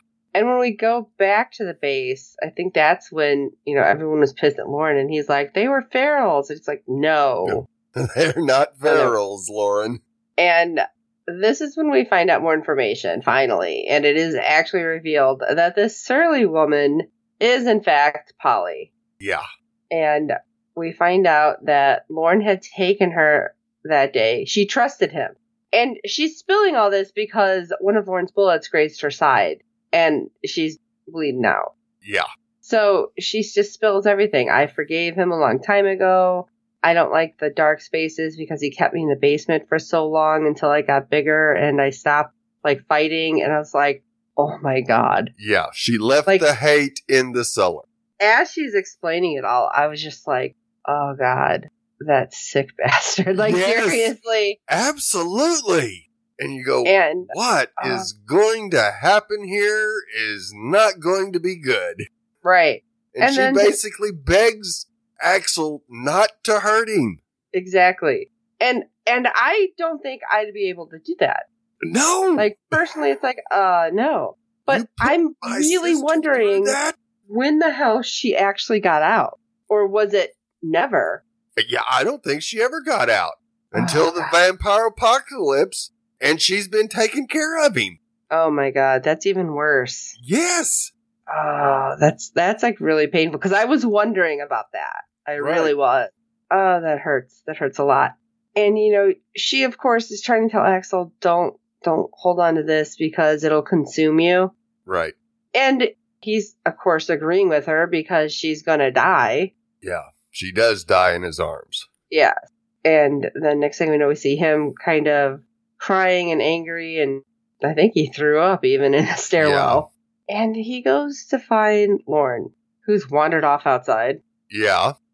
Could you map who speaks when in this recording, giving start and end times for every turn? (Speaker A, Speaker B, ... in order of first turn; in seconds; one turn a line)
Speaker A: 0.3-7.6
Speaker B: 7.4-10.0
Speaker A: 8.8-9.2
Speaker A: 10.4-18.9
Speaker A: 19.9-31.7
Speaker A: 32.6-45.3
Speaker B: 45.4-47.9
Speaker A: 48.2-54.6
Speaker B: 53.4-54.1
Speaker B: 54.7-62.1
Speaker A: 56.9-58.1
Speaker A: 62.4-63.8
Speaker B: 63.1-67.2
Speaker A: 67.5-71.4
Speaker B: 71.8-72.8
Speaker A: 72.4-81.2
Speaker B: 74.7-77.0
Speaker B: 81.6-88.0
Speaker A: 83.7-84.4
Speaker A: 88.3-90.2
Speaker B: 90.2-90.9
Speaker A: 91.3-104.5
Speaker B: 95.4-95.7
Speaker B: 104.9-105.1
Speaker A: 105.5-109.5
Speaker B: 109.8-111.9
Speaker A: 112.8-124.2
Speaker B: 119.4-119.8
Speaker B: 124.5-124.9